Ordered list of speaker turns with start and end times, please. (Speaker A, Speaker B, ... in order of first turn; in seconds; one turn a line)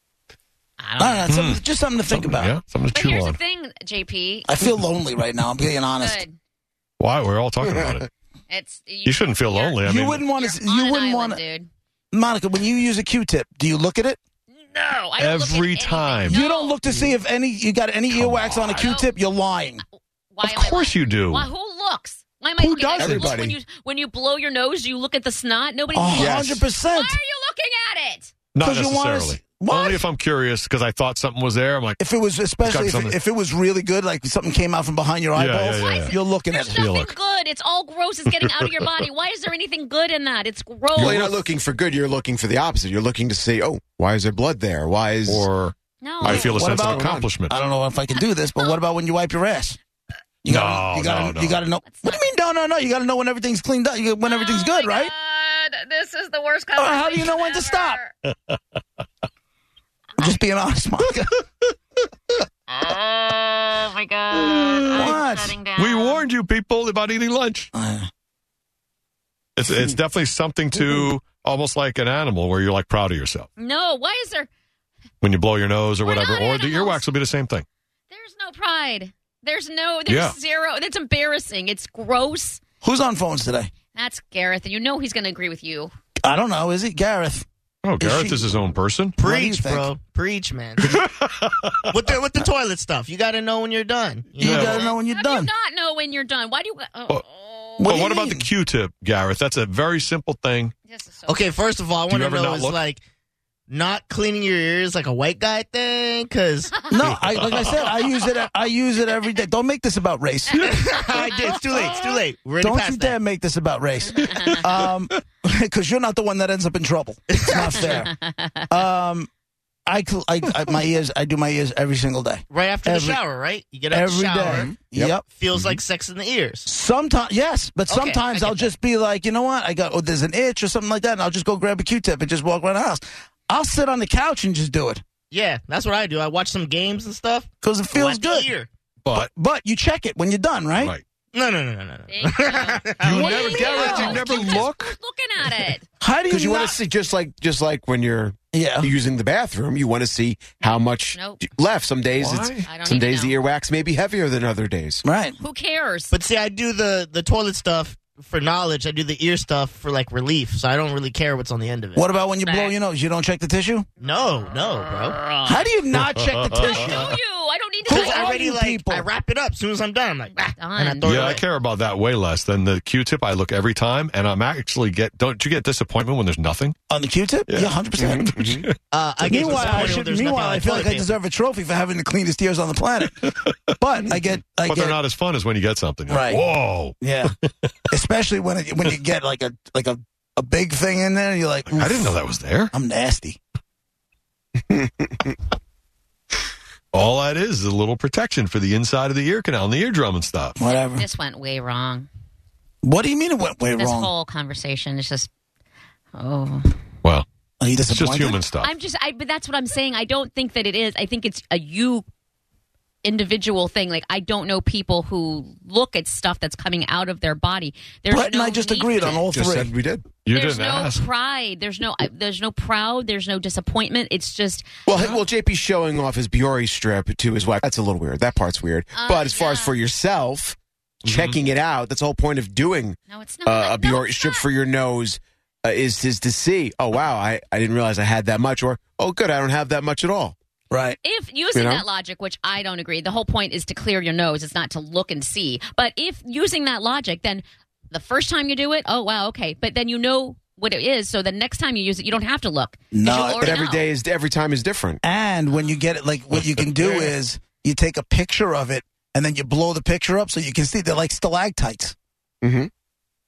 Speaker A: 0.8-1.3
Speaker B: 1.0-2.5
Speaker C: 1.3-3.4
Speaker A: 2.9-4.5
Speaker B: 4.5-6.2
Speaker A: 6.0-6.4
Speaker C: 7.0-8.1
Speaker A: 8.5-9.8
Speaker C: 9.1-10.2
Speaker B: 9.8-11.4
Speaker A: 10.3-11.7
Speaker B: 12.1-14.2
Speaker A: 14.5-16.8
Speaker C: 15.2-16.4
Speaker B: 16.3-19.8
Speaker D: 16.9-17.2
Speaker C: 18.1-18.9
Speaker A: 18.8-19.1
Speaker A: 20.3-28.3
Speaker C: 20.4-21.5
Speaker D: 22.6-23.6
Speaker B: 25.9-27.2
Speaker D: 26.1-26.6
Speaker C: 26.2-26.5
Speaker C: 28.5-32.0
Speaker B: 28.6-30.1
Speaker B: 32.0-36.9
Speaker C: 32.6-33.2
Speaker C: 35.4-36.2
Speaker A: 35.8-41.3
Speaker C: 36.7-37.1
Speaker D: 41.0-45.5
Speaker C: 41.0-41.4
Speaker C: 45.3-47.5
Speaker A: 46.0-46.5
Speaker D: 46.2-47.3
Speaker B: 46.3-49.8
Speaker A: 48.1-48.7
Speaker B: 50.4-55.1
Speaker C: 50.5-51.6
Speaker A: 51.8-52.2
Speaker A: 54.2-58.1
Speaker B: 56.8-58.0
Speaker C: 58.3-58.6
Speaker B: 60.2-61.3
Speaker A: 62.7-66.2
Speaker C: 64.3-65.1
Speaker B: 64.9-65.6
Speaker C: 65.8-67.7
Speaker B: 67.7-68.1
Speaker C: 69.6-73.5
Speaker A: 73.6-74.5
Speaker C: 75.2-77.7
Speaker A: 76.0-77.0
Speaker A: 78.1-82.6
Speaker C: 80.1-80.4
Speaker B: 82.8-83.7
Speaker A: 83.9-85.9
Speaker B: 86.2-87.5
Speaker C: 87.8-89.2
Speaker B: 88.0-88.6
Speaker E: 89.2-91.0
Speaker B: 89.2-89.9
Speaker C: 90.9-91.9
Speaker E: 91.9-94.8
Speaker B: 94.4-95.5
Speaker C: 94.4-94.8
Speaker A: 94.4-97.9
Speaker B: 97.8-98.5
Speaker C: 97.8-100.7
Speaker A: 100.9-101.5
Speaker E: 101.3-103.0
Speaker C: 102.1-102.8
Speaker E: 103.7-106.8
Speaker A: 106.8-107.0
Speaker B: 106.9-110.7
Speaker C: 107.4-107.9
Speaker E: 110.6-113.2
Speaker B: 112.6-118.1
Speaker A: 114.1-114.6
Speaker E: 117.3-118.0
Speaker A: 118.2-118.7
Speaker B: 118.7-119.3
Speaker B: 119.9-123.2
Speaker E: 122.5-126.7
Speaker B: 123.9-125.2
Speaker D: 124.5-125.8
Speaker B: 126.7-135.0
Speaker E: 127.9-128.7
Speaker E: 135.3-138.7
Speaker B: 137.6-138.5
Speaker C: 139.0-139.3
Speaker B: 139.2-140.9
Speaker C: 140.8-141.0
Speaker E: 141.3-144.4
Speaker A: 142.1-145.8
Speaker C: 143.0-144.9
Speaker D: 143.4-144.4
Speaker B: 146.0-146.8
Speaker D: 146.3-155.1
Speaker B: 148.5-148.9
Speaker A: 151.1-151.4
Speaker C: 152.2-152.7
Speaker A: 152.7-153.4
Speaker B: 155.0-155.4
Speaker A: 155.4-156.2
Speaker E: 156.1-162.7
Speaker B: 161.9-163.9
Speaker E: 164.0-165.6
Speaker B: 165.4-167.2
Speaker C: 166.0-166.7
Speaker A: 166.6-168.3
Speaker E: 167.9-171.4
Speaker B: 167.9-169.1
Speaker A: 170.6-171.1
Speaker C: 171.1-176.8
Speaker B: 176.9-178.3
Speaker C: 177.5-178.7
Speaker D: 178.0-178.7
Speaker E: 178.9-181.1
Speaker B: 179.3-185.0
Speaker C: 179.3-180.0
Speaker C: 183.2-183.6
Speaker C: 184.7-187.7
Speaker B: 186.1-186.5
Speaker B: 187.0-187.3
Speaker B: 187.9-192.2
Speaker C: 191.7-192.7
Speaker B: 192.7-193.4
Speaker C: 196.9-200.6
Speaker B: 200.6-201.1
Speaker A: 200.6-202.1
Speaker B: 202.8-204.1
Speaker A: 203.8-205.3
Speaker A: 206.2-206.7
Speaker B: 207.6-208.4
Speaker C: 207.9-208.7
Speaker A: 208.6-212.1
Speaker A: 213.0-219.2
Speaker B: 218.1-219.7
Speaker D: 219.1-220.1
Speaker C: 220.2-221.1
Speaker A: 220.3-225.2
Speaker D: 224.9-240.3
Speaker A: 229.0-229.8
Speaker C: 231.1-231.4
Speaker A: 233.1-234.5
Speaker B: 240.7-241.0
Speaker A: 241.0-253.9
Speaker D: 241.5-241.9
Speaker B: 252.9-253.6
Speaker D: 253.4-255.0
Speaker B: 255.0-262.0
Speaker D: 256.8-257.1
Speaker D: 262.4-262.7